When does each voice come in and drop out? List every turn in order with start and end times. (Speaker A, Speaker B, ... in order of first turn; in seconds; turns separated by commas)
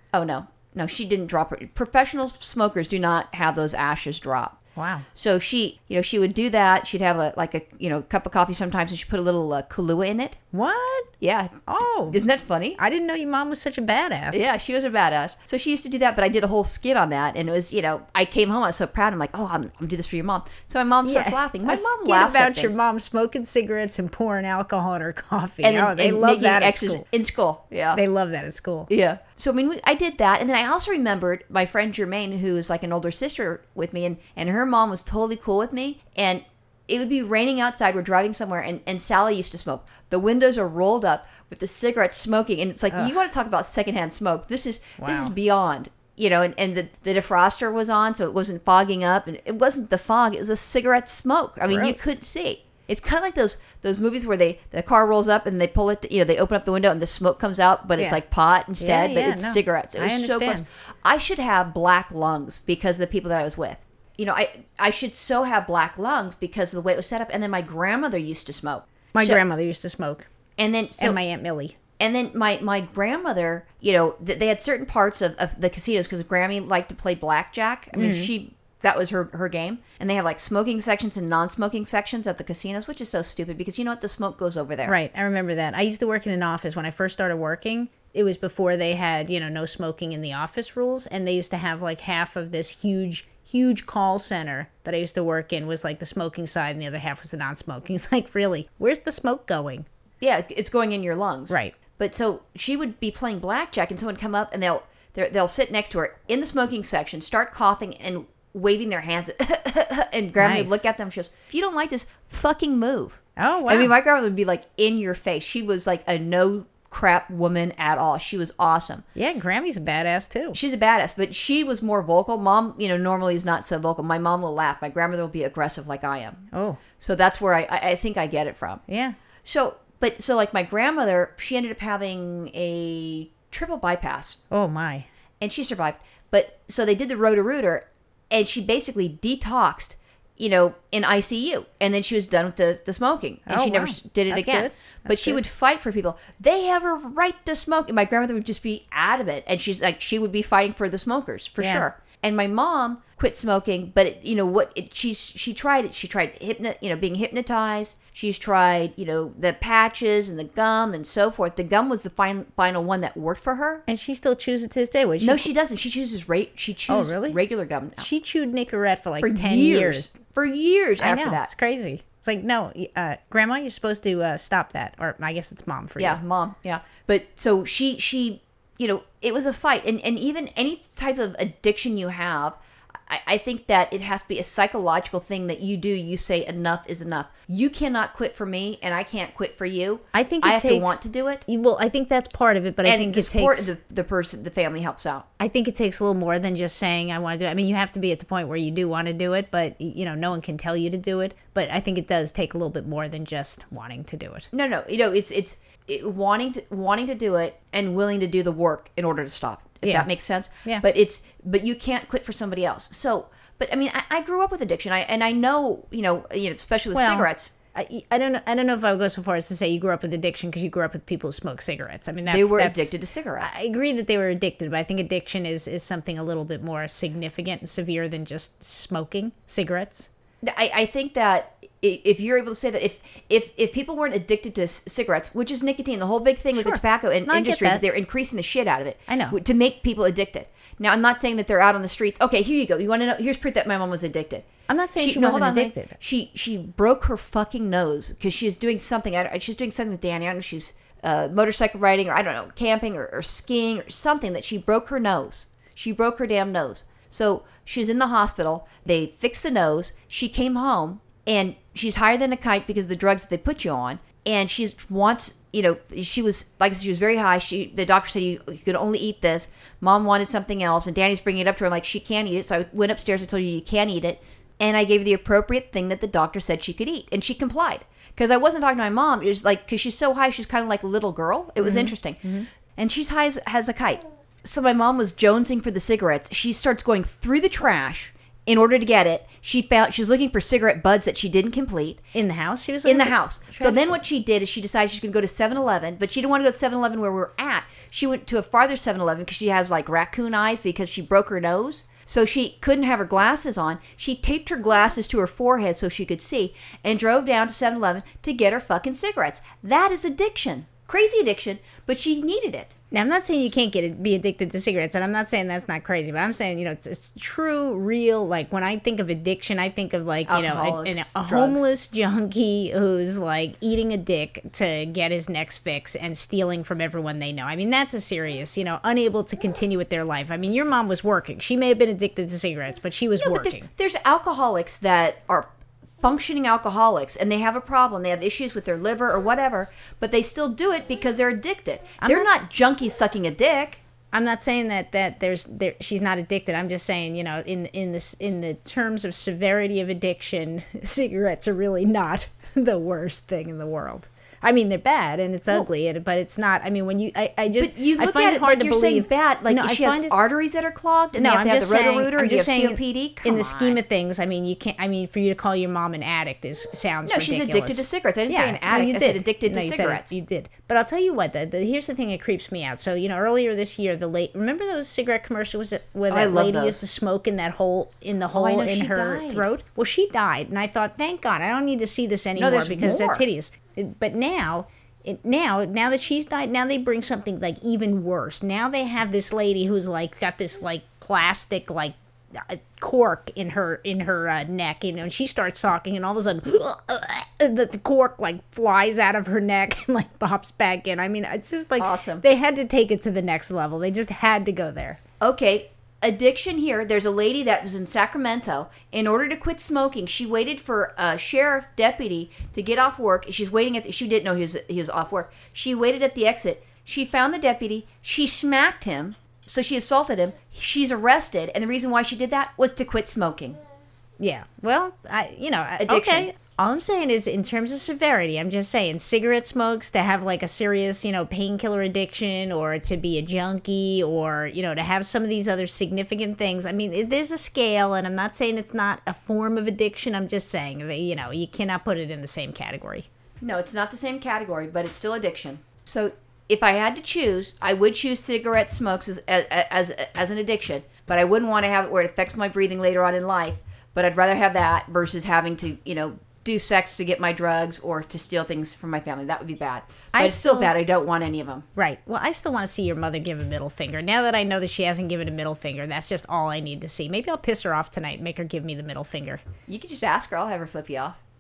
Speaker A: 0.1-4.6, Speaker B: 4.8-5.1, Speaker A: 5.2-10.4, Speaker B: 10.5-11.1, Speaker A: 11.2-11.6, Speaker B: 11.7-12.2, Speaker A: 12.1-12.8, Speaker B: 12.8-14.5, Speaker A: 14.3-22.8, Speaker B: 21.0-27.1, Speaker A: 25.6-28.0, Speaker B: 27.9-28.9, Speaker A: 28.9-69.4, Speaker B: 45.0-45.3, Speaker B: 51.7-52.1, Speaker B: 58.8-60.7, Speaker B: 69.2-70.3, Speaker A: 70.6-71.2, Speaker B: 71.0-71.8, Speaker A: 72.0-85.0, Speaker B: 77.9-78.3, Speaker B: 84.9-99.9, Speaker A: 100.2-119.0, Speaker B: 110.4-110.8, Speaker B: 113.4-113.9, Speaker B: 119.1-120.6, Speaker A: 120.5-126.4, Speaker B: 126.5-126.8, Speaker A: 127.0-128.8, Speaker B: 128.9-129.2, Speaker A: 129.4-134.4, Speaker B: 134.5-135.1, Speaker A: 135.4-163.8, Speaker B: 143.5-145.4, Speaker B: 151.6-151.9, Speaker B: 163.9-165.5, Speaker A: 165.2-168.1, Speaker B: 166.9-167.4, Speaker B: 168.0-170.1, Speaker A: 169.2-171.5, Speaker B: 171.0-176.2, Speaker A: 176.0-182.6, Speaker A: 183.1-191.4, Speaker B: 190.1-193.7, Speaker A: 192.8-195.2, Speaker B: 195.4-204.5, Speaker A: 204.5-217.5, Speaker B: 209.8-210.1, Speaker B: 216.9-230.1, Speaker A: 222.3-223.6, Speaker A: 230.4-244.4, Speaker B: 236.6-237.8, Speaker B: 239.1-239.4, Speaker B: 244.7-245.9, Speaker A: 245.0-282.2, Speaker B: 281.6-282.5, Speaker A: 282.8-292.0, Speaker B: 292.1-293.9, Speaker A: 292.9-312.7, Speaker B: 312.9-333.7, Speaker A: 320.3-321.6, Speaker A: 333.2-343.8, Speaker B: 342.0-342.4, Speaker B: 344.1-360.1, Speaker A: 357.5-363.8, Speaker B: 361.2-405.0, Speaker A: 367.1-370.1, Speaker A: 376.1-376.8, Speaker A: 378.3-379.5, Speaker A: 382.4-383.2, Speaker A: 401.8-402.2, Speaker A: 405.2-423.6, Speaker B: 424.2-443.1, Speaker A: 425.8-426.3, Speaker A: 443.4-461.6, Speaker B: 460.1-460.7, Speaker B: 461.8-469.4, Speaker A: 469.7-471.1